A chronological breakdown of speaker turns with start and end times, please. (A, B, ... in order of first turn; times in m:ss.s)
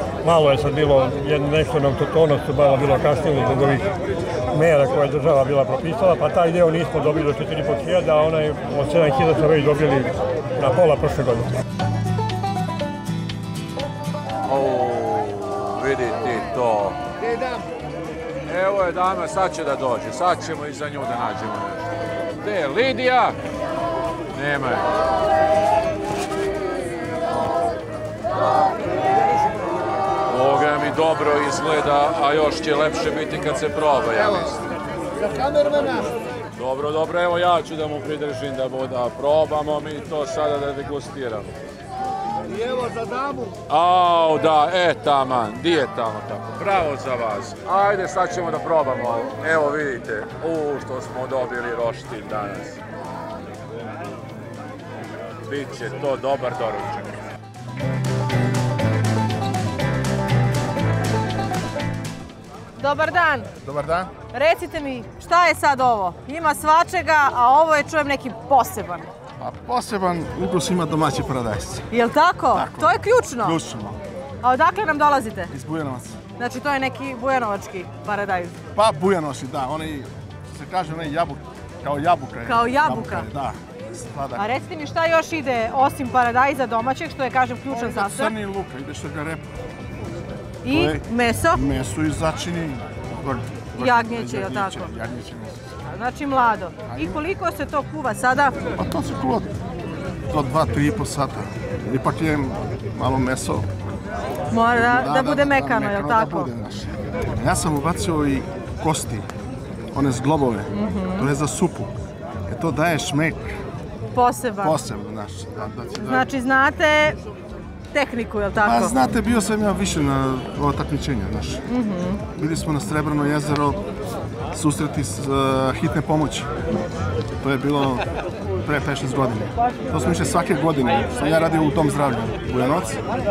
0:00.2-0:03.9 A
0:04.5-0:11.5 A
0:14.5-0:17.0 B
0:17.2-0:17.7 C
0:18.5-0:23.4 B
0:24.3-0:24.8 B
0:30.3-0:34.6 B
0:34.1-0:34.6 C
0:35.2-0:36.1 C
0:36.6-0:41.6 B
0:42.5-0:43.6 C
0:43.7-0:52.8 B
0:55.4-0:57.2 B
1:02.8-1:03.5 D
1:03.6-1:04.1 E
1:04.3-1:09.1 D
1:09.4-1:11.9 E
1:11.9-1:13.6 D
1:12.5-1:14.0 E
1:14.4-1:15.5 D
1:15.5-1:16.2 E
1:16.4-1:18.5 D
1:18.8-1:24.5 E
1:22.5-1:23.3 D
1:24.4-1:28.3 D
1:27.7-1:29.5 E
1:30.6-1:31.6 D
1:30.6-1:35.6 E
1:33.8-1:34.9 D
1:35.9-1:38.5 D
1:36.9-1:37.2 E
1:38.8-1:39.5 E
1:40.3-1:43.7 E
1:44.5-1:46.5 D
1:44.7-1:49.3 E
1:49.9-1:51.9 E
1:50.7-1:51.3 D
1:52.5-1:53.5 E
1:54.1-1:54.8 D
1:54.6-1:56.3 E
1:56.0-1:57.2 D
1:57.9-1:58.9 D
1:58.6-2:01.6 E
2:01.7-2:02.2 D
2:02.3-2:03.8 E
2:04.5-2:06.5 E
2:07.4-2:08.1 E
2:08.6-2:13.0 E